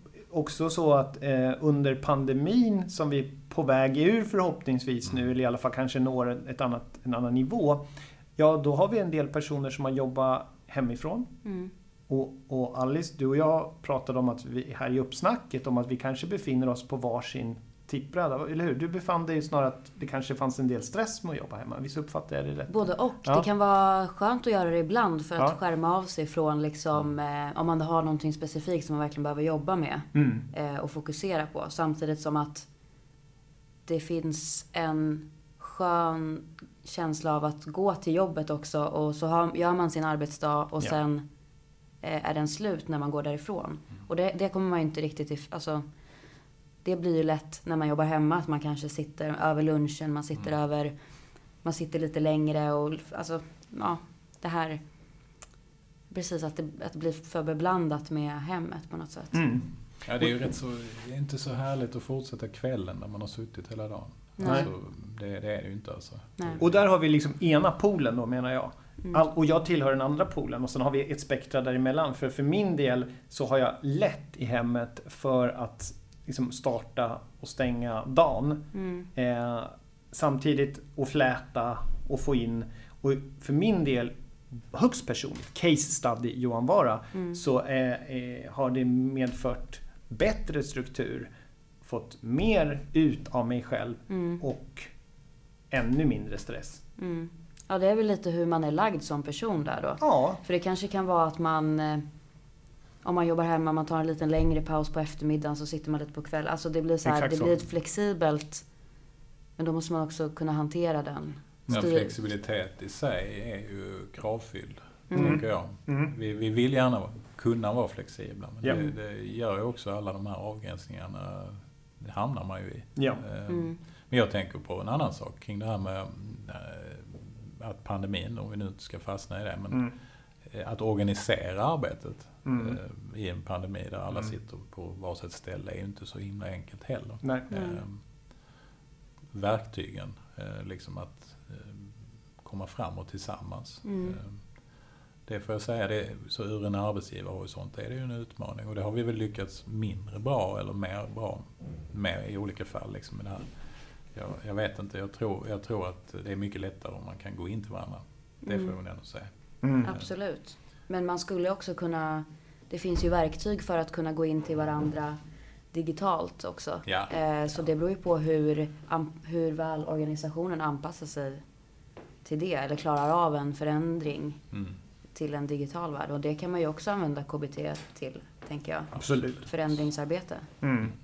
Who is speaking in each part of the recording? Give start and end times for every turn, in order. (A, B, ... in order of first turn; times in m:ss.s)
0:00.3-0:07.8 A
0:08.4-0:11.3 A
0:11.4-0:11.7 B
0:12.1-0:23.4 A
0:22.7-0:32.7 B
0:30.1-0:30.4 A
0:33.8-0:41.2 B
0:42.0-0:45.8 B
0:46.8-0:50.9 B
0:51.6-0:54.8 B
0:56.1-0:59.4 B
0:59.3-0:59.7 A
1:00.0-1:06.6 C
1:04.4-1:04.7 B
1:06.6-1:31.3 A
1:18.7-1:19.1 B
1:27.1-1:27.4 B
1:31.8-1:34.9 A
1:34.1-1:34.4 B
1:35.7-1:36.8 A
1:37.0-1:42.0 B
1:40.0-1:40.4 A
1:43.0-1:48.6 B
1:47.0-1:47.5 A
1:49.6-1:52.1 B
1:51.7-2:09.9 C
1:55.1-1:55.4 B
1:55.1-1:56.1 A
1:58.7-1:58.9 B
2:03.0-2:03.2 A
2:03.5-2:03.8 B
2:10.4-2:18.0 C
2:12.4-2:12.8 A
2:17.5-2:17.8 B
2:19.3-2:24.4 C
2:23.8-2:24.2 B
2:25.2-2:33.5 C
2:34.1-2:40.0 C
2:38.4-2:38.8 B
2:39.6-2:39.9 A
2:39.8-2:45.2 B
2:45.7-2:51.4 B
2:46.8-2:47.1 C
2:52.2-2:54.4 B
2:54.5-2:54.8 C
2:55.1-3:00.5 B
2:59.0-2:59.4 A
3:00.6-3:00.9 A